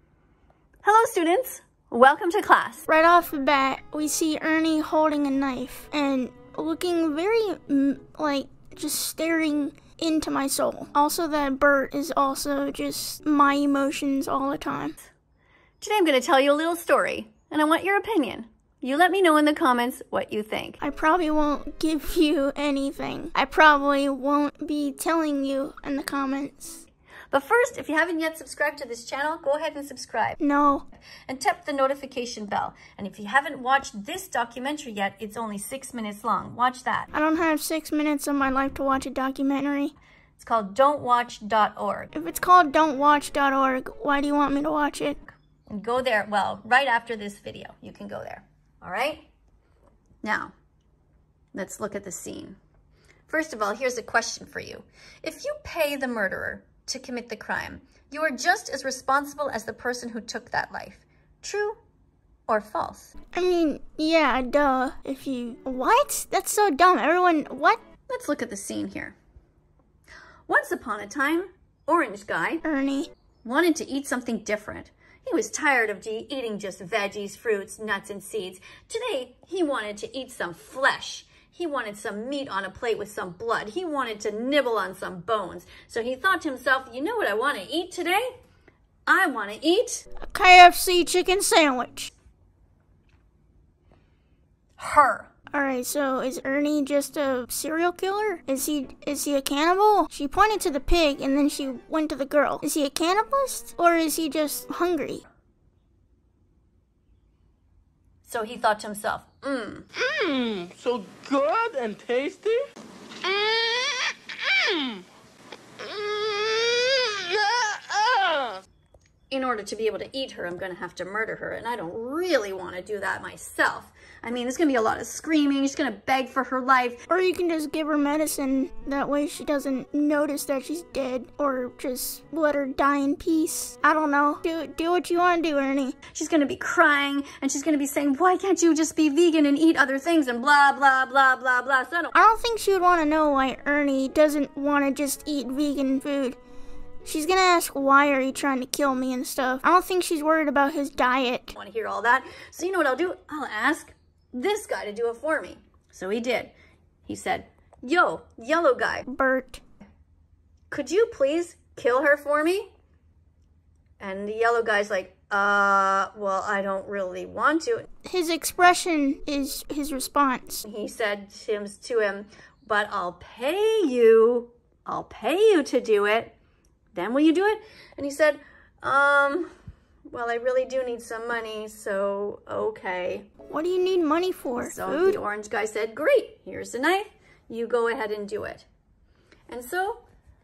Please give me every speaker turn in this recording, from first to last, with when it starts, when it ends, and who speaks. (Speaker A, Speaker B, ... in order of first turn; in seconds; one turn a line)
Speaker A: 0.8-2.9
Speaker B: 2.9-15.0
Speaker A: 15.8-20.8
Speaker B: 20.8-26.8
Speaker A: 27.3-30.4
Speaker B: 30.4-30.9
Speaker A: 31.3-37.1
Speaker B: 37.1-39.9
Speaker A: 40.4-42.1
Speaker B: 42.1-45.2
Speaker A: 45.7-49.2
Speaker A: 50.2-50.5
Speaker A: 51.5-52.6
Speaker A: 53.3-61.8
Speaker A: 62.5-63.1
Speaker B: 63.3-67.8
Speaker A: 68.1-69.2
Speaker A: 70.5-72.6
Speaker B: 72.6-73.1
Speaker A: 73.4-88.3
Speaker A: 89.1-90.0
Speaker B: 90.2-92.1
Speaker A: 94.8-95.3
Speaker B: 95.5-105.2
Speaker A: 108.2-109.8
Speaker C: 110.0-112.6
Speaker C: 113.2-115.0
Speaker C: 115.8-118.6
Speaker A: 119.3-127.0
Speaker B: 127.1-135.9
Speaker A: 136.1-142.1
Speaker B: 142.1-146.4
Speaker B: 147.0-151.5
Speaker A: 151.5-156.5
Speaker A: 157.1-159.1
Speaker B: 159.1-159.6
Speaker A: 160.7-162.7
Speaker A: 164.0-167.8
Speaker B: 168.0-170.6
Speaker A: 170.6-176.3
Speaker A: 176.9-179.5
Speaker A: 180.1-183.3
Speaker B: 183.5-185.2
Speaker A: 184.6-188.7
Speaker A: 189.5-190.0